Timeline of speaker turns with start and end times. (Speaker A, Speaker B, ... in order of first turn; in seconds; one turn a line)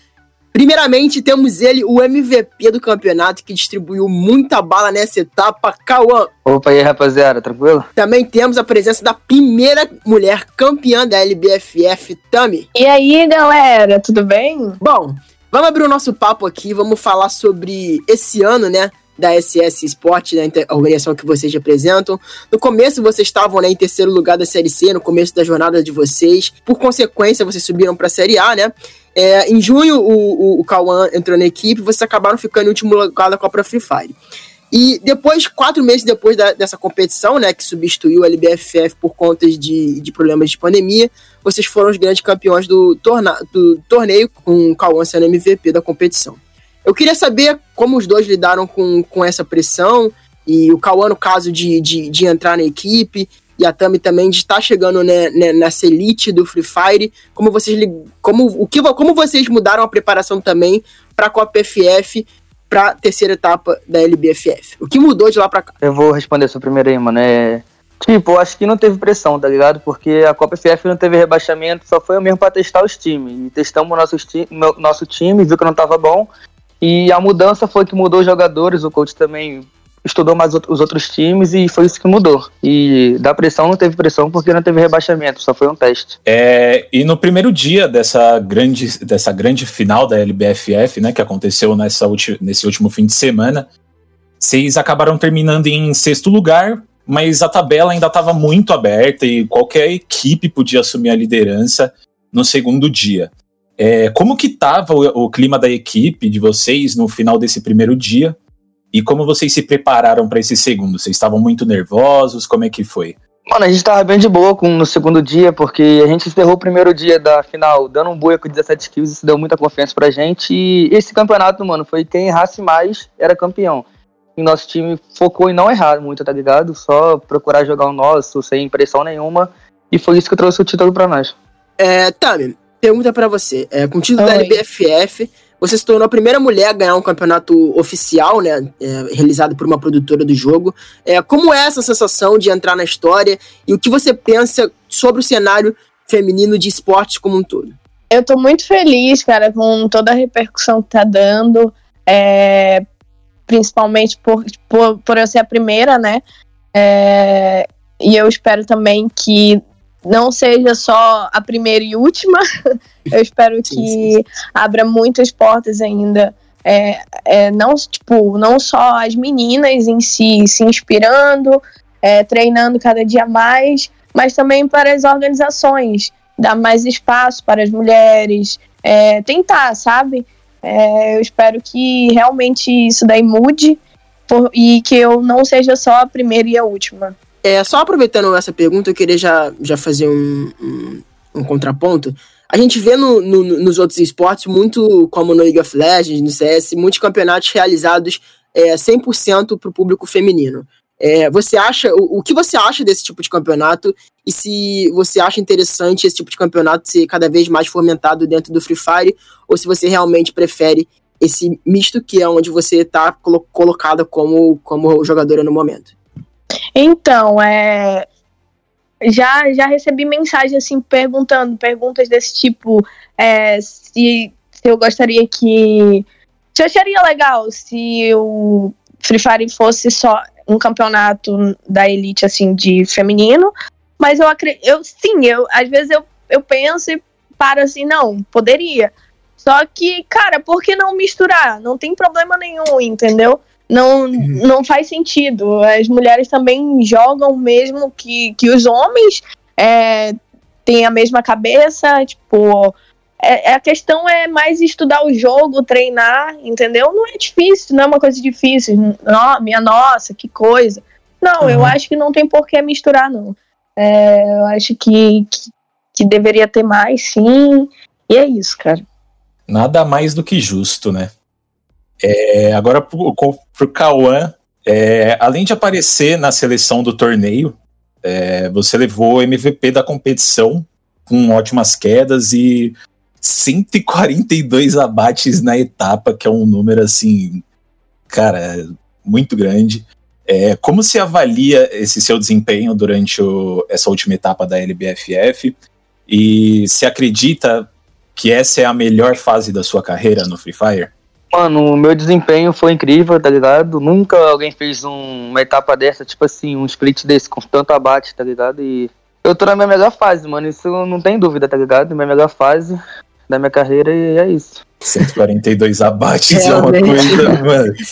Speaker A: 0.5-6.3
Speaker B: 6.5-7.9
Speaker A: 8.0-12.7
Speaker C: 12.7-14.8
Speaker A: 14.8-34.2
Speaker A: 34.7-65.7
Speaker B: 65.8-76.3
Speaker B: 76.8-86.2
Speaker D: 86.2-93.7
Speaker D: 94.4-108.4
Speaker D: 108.9-113.2
Speaker B: 113.5-123.8
Speaker B: 124.3-131.3
Speaker A: 131.8-147.7
Speaker C: 134.2-134.6
Speaker C: 148.1-152.8
Speaker C: 153.5-156.2
Speaker C: 156.7-162.4
Speaker C: 163.1-187.1
Speaker A: 163.7-164.1
Speaker A: 187.4-215.9
Speaker C: 216.8-218.1
Speaker C: 219.0-268.8
Speaker A: 261.4-261.7
Speaker D: 269.5-271.1
Speaker D: 272.0-287.4
Speaker D: 288.1-295.5
Speaker D: 296.1-300.9
Speaker B: 301.3-312.8
Speaker B: 313.3-314.6
Speaker D: 314.8-317.7
Speaker A: 316.3-317.4